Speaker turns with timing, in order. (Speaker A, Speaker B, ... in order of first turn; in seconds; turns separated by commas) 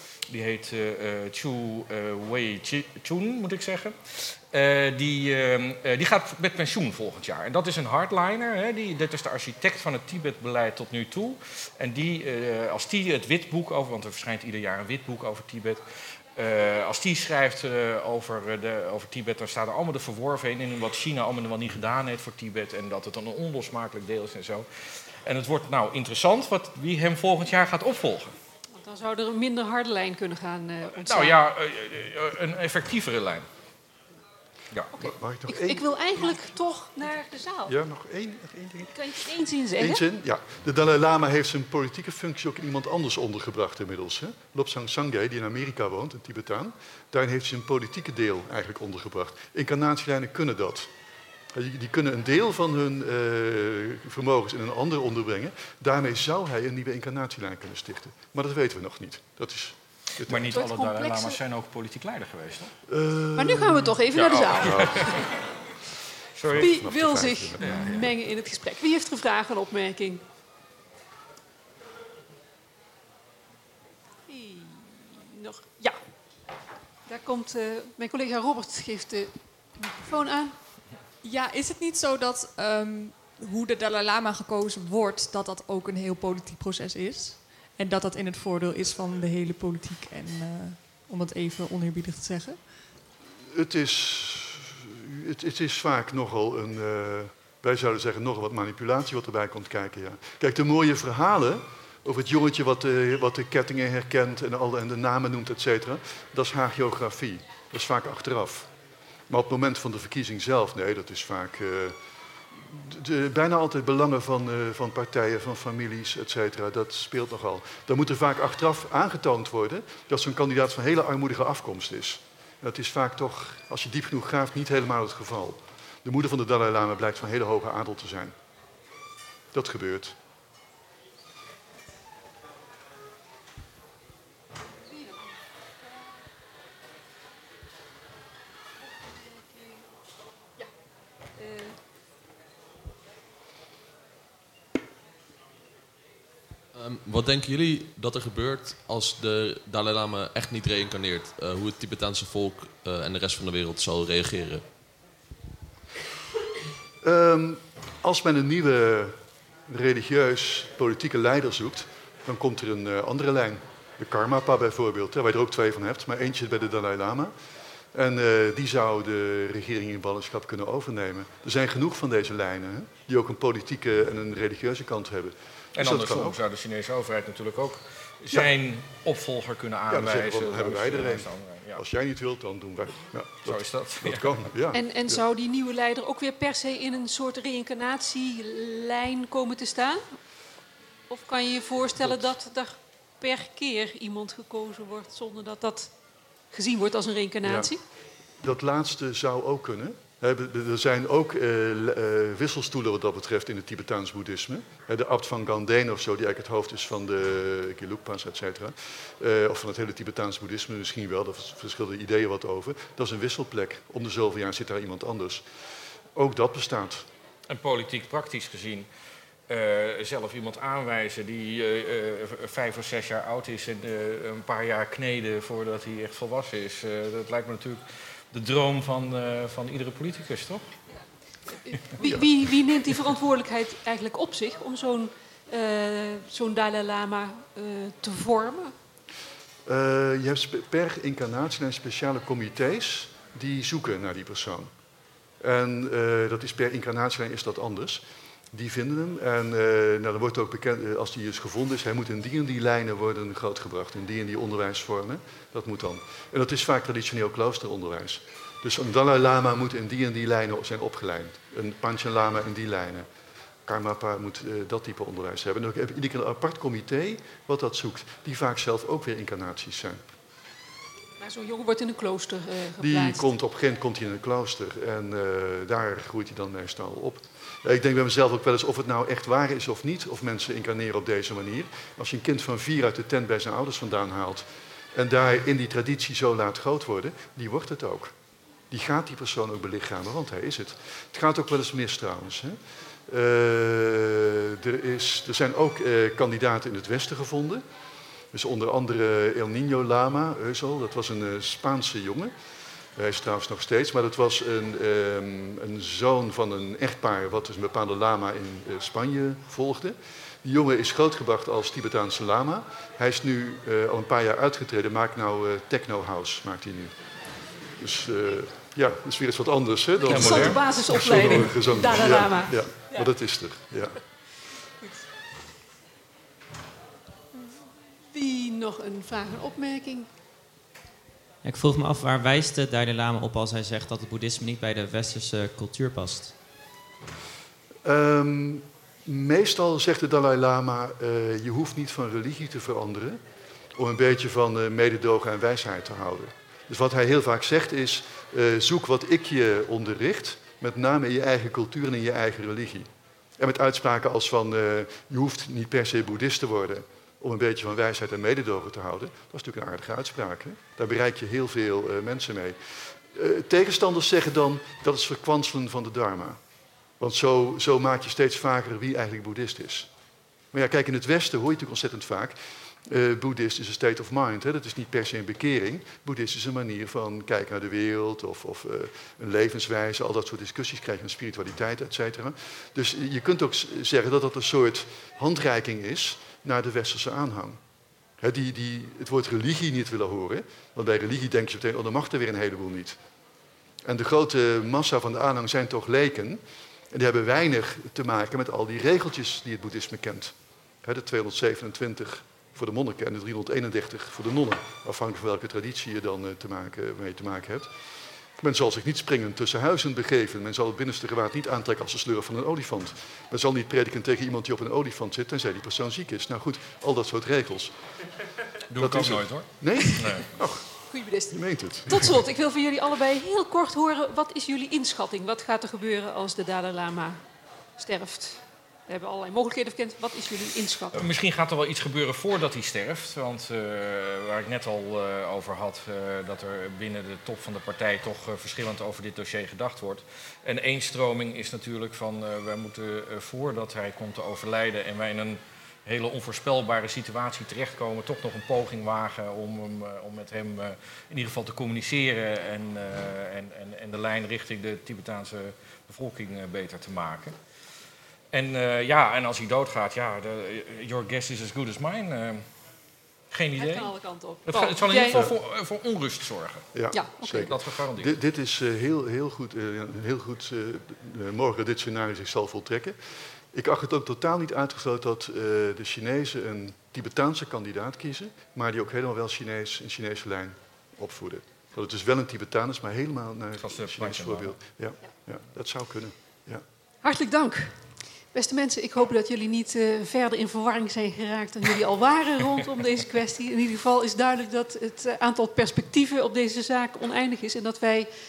Speaker A: 0.3-15.8, Speaker A: 16.4-24.7, Speaker A: 25.2-28.4, Speaker B: 28.7-31.4, Speaker A: 31.1-33.5, Speaker B: 34.9-37.8, Speaker C: 35.0-35.9, Speaker C: 37.7-39.1, Speaker B: 38.9-40.0, Speaker C: 39.8-50.9, Speaker C: 51.5-60.6, Speaker A: 60.2-62.7, Speaker B: 60.4-61.4, Speaker C: 62.9-64.0, Speaker B: 63.4-65.2, Speaker A: 64.2-65.3, Speaker C: 64.6-65.1, Speaker A: 66.4-66.8, Speaker C: 66.4-68.1, Speaker B: 66.6-70.2, Speaker A: 67.6-68.1, Speaker B: 74.3-76.0, Speaker B: 77.1-80.6, Speaker D: 81.2-92.7, Speaker C: 93.5-108.7, Speaker C: 109.3-112.0, Speaker C: 112.5-128.3, Speaker C: 129.5-130.2, Speaker B: 139.2-139.8, Speaker B: 141.4-141.8, Speaker E: 146.7-154.6, Speaker C: 157.0-159.2, Speaker C: 159.7-167.3, Speaker C: 167.9-176.4, Speaker A: 175.8-181.8, Speaker C: 179.9-185.2, Speaker A: 183.4-184.4, Speaker B: 184.7-190.1, Speaker B: 191.1-195.9, Speaker B: 196.5-197.8, Speaker C: 197.4-197.7, Speaker C: 198.4-215.4, Speaker C: 216.2-217.1, Speaker A: 217.5-218.9, Speaker A: 219.5-230.7, Speaker B: 231.6-238.7, Speaker C: 239.7-244.7, Speaker C: 245.4-263.1, Speaker C: 263.6-270.1, Speaker B: 271.2-273.3, Speaker C: 272.8-288.1, Speaker C: 288.7-297.6, Speaker C: 298.3-302.3, Speaker C: 303.0-316.9, Speaker C: 317.8-324.0, Speaker B: 320.0-323.1, Speaker A: 320.1-321.5, Speaker B: 328.1-330.1, Speaker F: 331.4-336.4, Speaker C: 337.8-343.2, Speaker C: 343.8-362.6, Speaker C: 363.1-366.4, Speaker C: 367.0-369.9, Speaker C: 370.5-387.6, Speaker C: 388.2-393.0, Speaker C: 393.9-407.7, Speaker C: 408.4-417.7, Speaker A: 418.7-420.3, Speaker C: 418.8-420.6, Speaker B: 420.9-427.2, Speaker C: 421.3-422.2, Speaker B: 427.8-431.0, Speaker A: 430.9-457.4, Speaker A: 458.3-462.5, Speaker A: 463.3-463.9, Speaker B: 463.6-465.3, Speaker A: 464.5-466.7, Speaker C: 466.7-473.0, Speaker B: 466.9-467.5, Speaker A: 467.3-468.1, Speaker C: 473.5-486.6, Speaker A: 483.6-484.6, Speaker B: 487.0-487.8, Speaker B: 488.3-498.1